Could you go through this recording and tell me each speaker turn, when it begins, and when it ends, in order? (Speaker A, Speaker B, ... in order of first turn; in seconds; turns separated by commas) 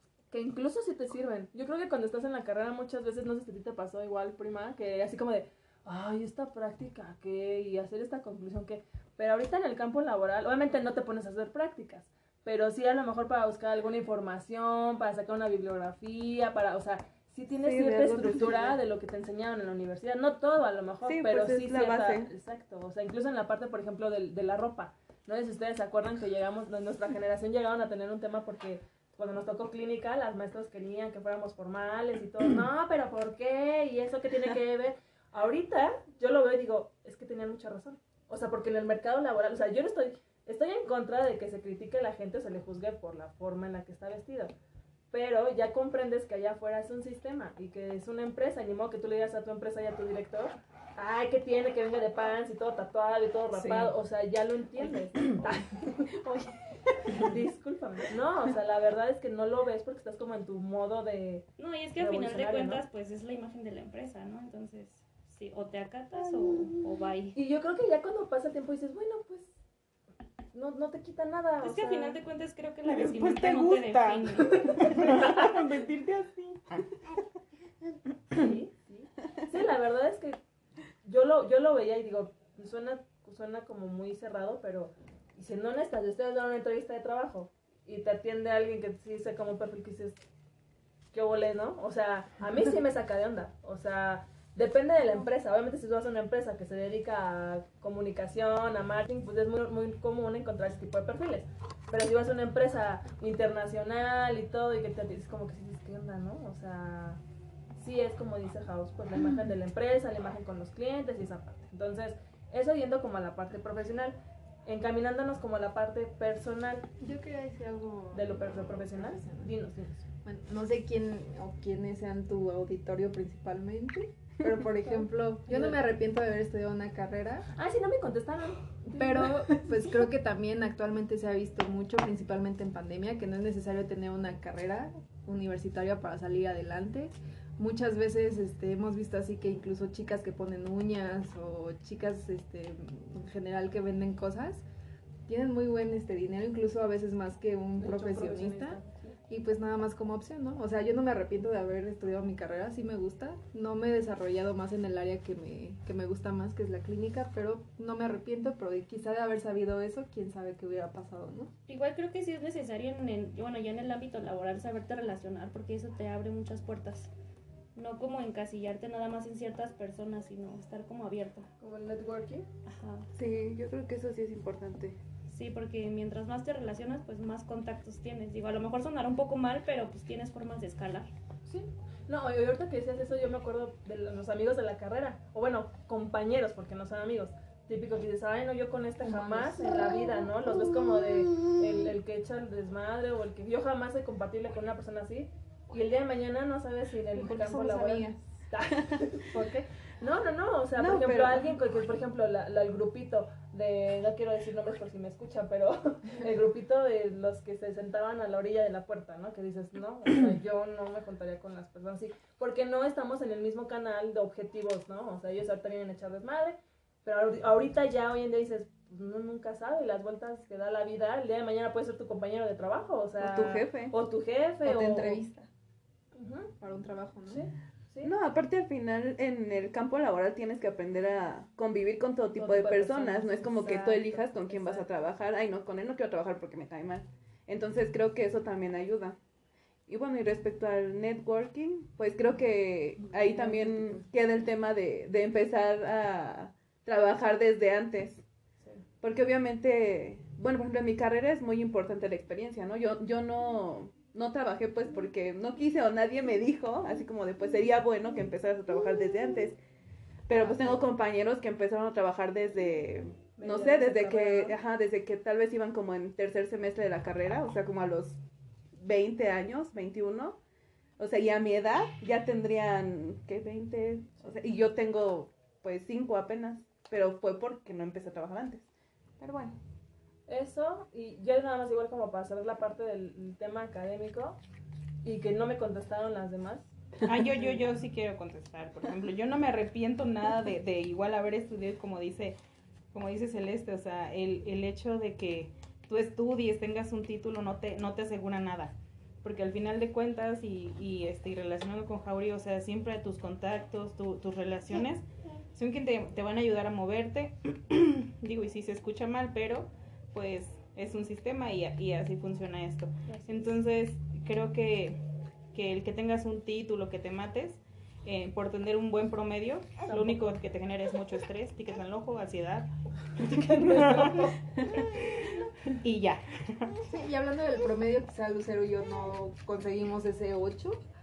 Speaker A: 0.3-44.5, Speaker B: 17.6-18.7, Speaker B: 21.0-22.3, Speaker A: 45.1-56.5, Speaker C: 53.5-53.9, Speaker A: 57.0-62.8, Speaker D: 61.6-67.4, Speaker A: 67.3-69.5, Speaker A: 70.5-72.2, Speaker D: 71.6-75.2, Speaker C: 72.8-76.6, Speaker A: 74.6-75.5, Speaker A: 78.3-80.4, Speaker A: 81.0-90.2, Speaker A: 91.1-107.2, Speaker A: 107.8-116.9, Speaker E: 117.0-119.5, Speaker A: 118.1-120.0, Speaker E: 120.2-127.5, Speaker A: 125.5-125.8, Speaker A: 127.5-129.3, Speaker E: 128.9-144.6, Speaker E: 145.3-161.5, Speaker A: 147.8-149.2, Speaker D: 161.7-167.1, Speaker D: 167.7-171.5, Speaker A: 171.6-172.5, Speaker D: 172.7-173.1, Speaker B: 173.1-175.0, Speaker D: 175.3-181.1, Speaker A: 181.5-225.2, Speaker E: 189.0-189.6, Speaker E: 197.1-198.2, Speaker B: 200.8-201.4, Speaker B: 223.2-223.9, Speaker E: 224.6-225.5, Speaker A: 226.1-226.5, Speaker E: 226.6-227.4, Speaker A: 227.3-228.1, Speaker B: 228.0-239.2, Speaker A: 232.3-234.9, Speaker B: 239.9-248.2, Speaker A: 243.2-243.9, Speaker B: 249.0-259.6, Speaker B: 260.3-268.2, Speaker A: 260.4-260.7, Speaker A: 263.4-264.6, Speaker B: 268.8-270.4, Speaker B: 271.0-278.6, Speaker B: 279.2-279.6, Speaker A: 280.3-284.4, Speaker A: 285.0-286.7, Speaker C: 287.0-292.4, Speaker C: 292.9-315.0, Speaker A: 313.1-313.5, Speaker C: 315.5-325.1, Speaker A: 319.9-320.4, Speaker A: 323.2-324.4, Speaker C: 325.7-326.8, Speaker E: 326.9-330.8